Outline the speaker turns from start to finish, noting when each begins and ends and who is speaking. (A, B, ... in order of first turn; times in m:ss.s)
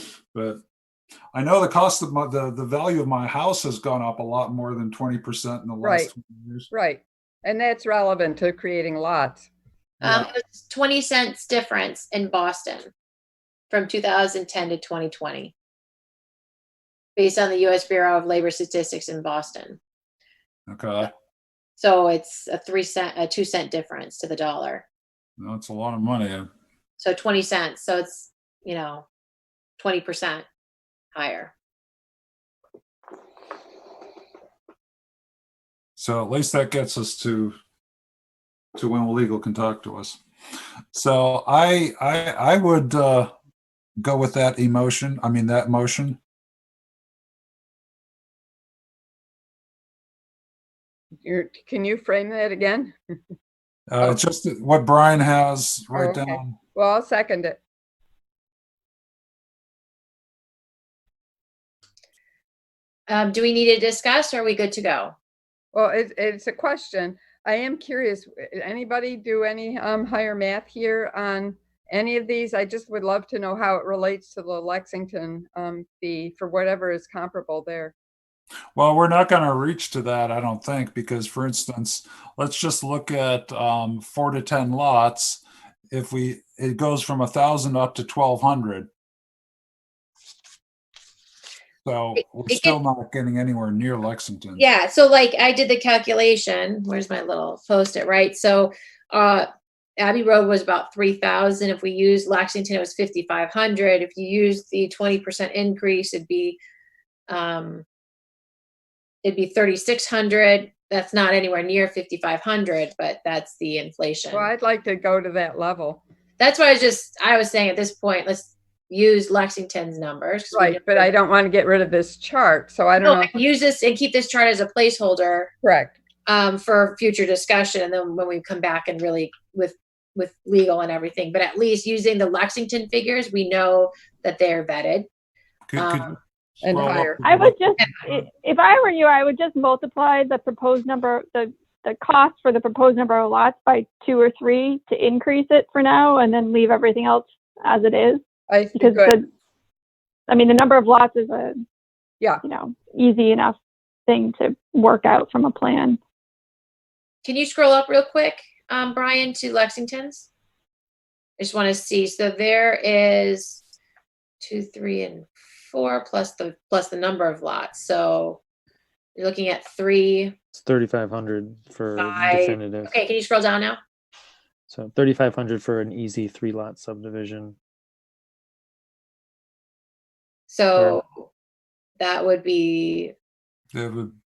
0:00.3-0:00.6 A
0:01.3-0:06.7 A
0:05.8-0:06.1 B
0:06.7-0:09.5 B
0:10.0-0:10.3 A
0:10.0-0:12.9 C
0:13.7-0:15.5 C
0:17.2-0:19.8 C
0:20.7-0:21.1 A
0:21.8-0:24.8 C
0:25.4-0:26.5 A
0:27.0-0:29.0 C
0:29.8-0:30.4 C
0:31.2-0:31.5 C
0:36.0-0:37.6 A
0:38.8-0:40.2 A
0:40.9-0:43.3 A
0:44.0-0:46.2 A
0:51.2-0:53.0 B
0:53.9-0:56.6 A
0:55.9-0:57.6 B
1:03.1-1:05.1 C
1:05.7-1:17.9 B
1:18.7-1:28.9 A
1:31.8-1:34.6 A
1:32.2-1:32.8 C
1:34.6-1:46.6 C
1:47.3-1:47.8 C
1:49.2-1:54.5 C
1:54.3-1:56.0 B
1:56.4-2:01.1 C
2:00.5-2:03.3 B
2:03.0-2:05.5 C
2:05.6-2:05.9 B
2:06.2-2:15.1 C
2:15.7-2:17.7 A
2:15.8-2:16.2 C
2:16.6-2:17.2 B
2:17.2-2:28.2 D
2:28.5-2:29.2 B
2:28.8-2:29.2 D
2:30.3-2:31.6 D
2:32.4-2:36.0 D
2:37.2-2:40.3 C
2:41.4-2:43.6 C
2:44.4-2:48.4 C
2:49.2-2:50.3 C
2:50.5-2:52.9 E
2:52.0-2:53.8 C
2:54.7-2:57.6 E
3:00.5-3:01.2 C
3:02.0-3:03.1 C
3:03.7-3:04.1 A